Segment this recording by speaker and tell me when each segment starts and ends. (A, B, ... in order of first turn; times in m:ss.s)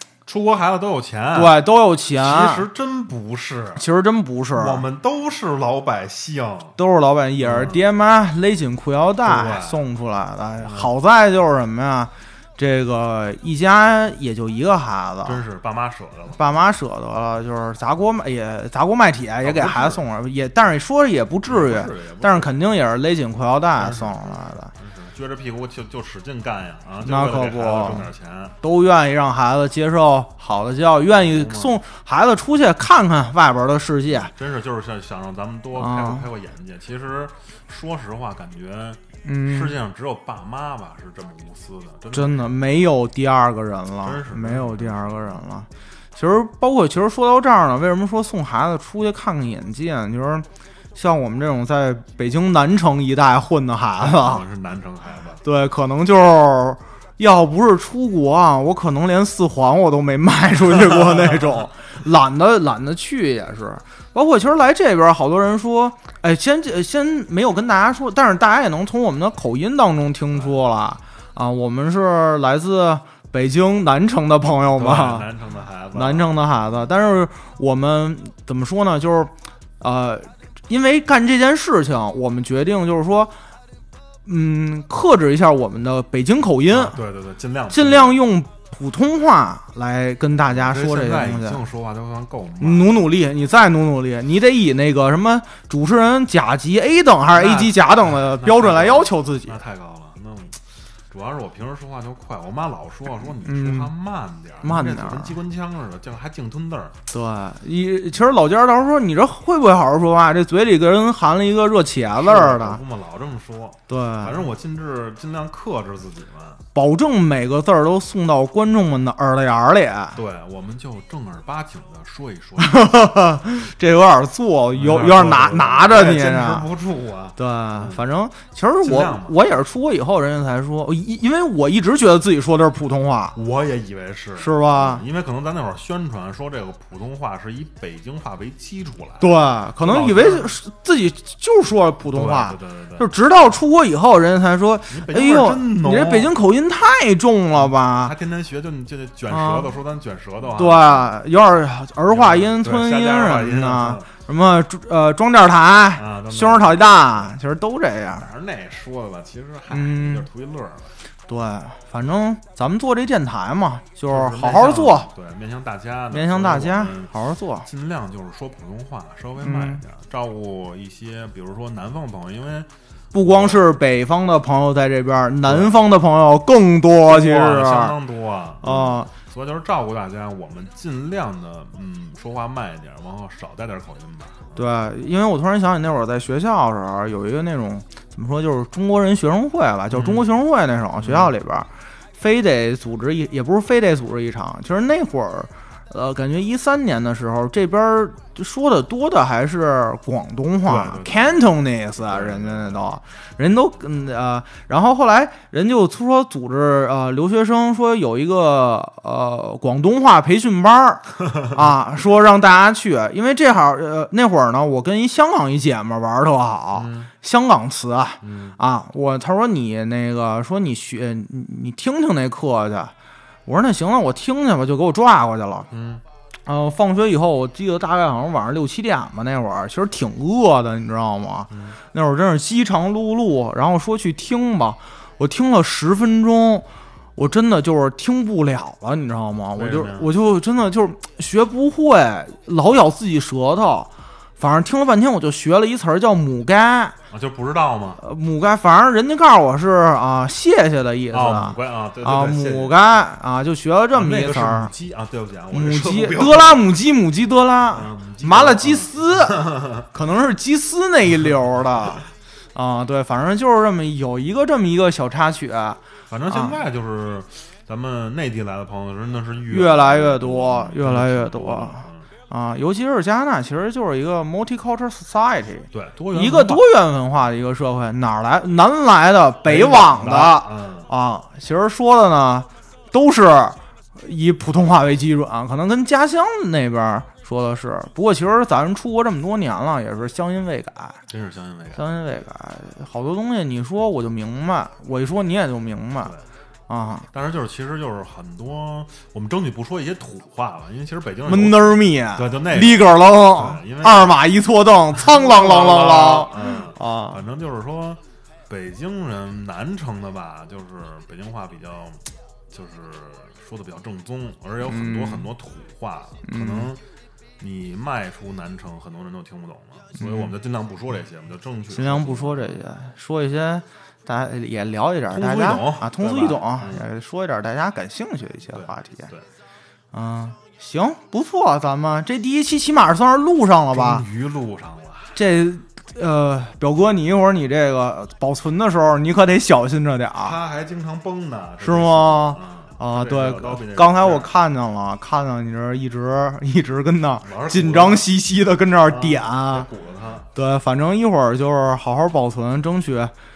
0:00.3-0:01.6 A
0:01.3-0:02.7 B
0:02.2-0:03.8 A
0:03.8-0:04.8 B
0:04.5-0:06.8 A
0:06.8-0:15.4 B
0:07.4-0:07.8 A
0:09.2-0:09.8 A
0:10.6-0:10.9 A
0:15.2-0:16.4 A
0:16.4-0:24.7 B
0:19.4-0:20.0 A
0:21.5-0:22.6 A
0:23.8-0:28.6 A
0:27.0-0:28.1 B
0:28.6-0:34.3 B
0:31.1-0:31.8 A
0:34.1-0:42.6 A
0:35.8-0:36.3 B
0:39.2-0:39.8 B
0:42.1-0:54.4 B
0:44.0-0:45.6 A
0:54.0-0:55.4 A
0:55.4-1:15.3 B
1:01.1-1:01.4 A
1:14.8-1:16.4 A
1:15.9-1:23.3 B
1:24.3-1:27.0 B
1:26.7-1:28.2 A
1:27.7-1:31.6 B
1:30.5-1:33.1 A
1:32.6-1:39.6 B
1:37.3-1:47.0 A
1:43.4-1:43.9 B
1:44.6-1:45.4 B
1:47.1-1:52.8 B
1:52.1-1:56.6 A
1:53.9-1:54.4 B
1:56.7-2:00.2 B
2:00.1-2:02.9 A
2:02.6-2:06.7 B
2:04.7-2:08.0 A
2:07.4-2:13.4 B
2:08.8-2:09.5 A
2:13.4-2:20.6 A
2:14.4-2:15.0 B
2:19.2-2:28.1 B
2:22.1-2:23.1 A
2:24.9-2:26.4 A
2:27.6-2:31.1 A
2:29.3-2:29.7 B
2:30.6-2:38.3 B
2:32.1-2:34.1 A
2:36.0-2:37.4 A
2:38.2-2:40.9 A
2:39.7-2:40.3 B
2:41.3-2:45.1 B
2:44.1-2:52.7 A
2:46.1-2:47.7 B
2:49.4-2:49.8 B
2:53.1-2:58.0 B
2:53.2-2:53.6 A
2:55.4-2:55.8 A
2:57.1-3:04.6 A
2:58.6-2:59.1 B
3:04.6-3:42.9 B
3:09.9-3:10.2 A
3:11.0-3:11.3 A
3:20.7-3:22.9 A
3:36.8-3:37.1 A
3:38.2-3:38.6 A
3:43.5-3:45.7 B
3:45.7-3:46.0 A
3:46.5-4:07.0 B
3:51.5-3:51.8 A
3:59.5-4:00.1 A
4:07.1-4:08.0 A
4:08.0-4:14.7 B
4:11.1-4:12.8 A
4:13.9-4:16.6 A
4:15.5-4:25.8 B
4:17.7-4:19.9 A
4:26.1-4:32.1 A
4:26.3-4:26.6 B
4:29.5-4:51.0 B
4:35.7-4:36.7 A
4:39.4-4:40.9 A
4:51.1-4:51.8 A
4:51.8-4:56.1 B
4:56.7-4:57.1 B
4:57.1-5:04.2 A
5:01.3-5:07.2 B
5:04.9-5:16.8 A
5:14.6-5:15.3 B
5:16.2-5:16.7 B
5:17.4-5:22.6 A
5:20.0-5:20.3 B
5:21.7-5:29.1 B
5:25.1-5:26.9 A
5:28.5-5:29.2 A
5:29.9-5:34.1 B
5:33.7-5:35.2 A
5:35.2-5:40.4 B
5:40.2-5:44.3 A
5:41.6-5:49.7 B
5:47.2-5:48.1 A
5:48.8-5:50.3 A
5:50.4-5:53.1 B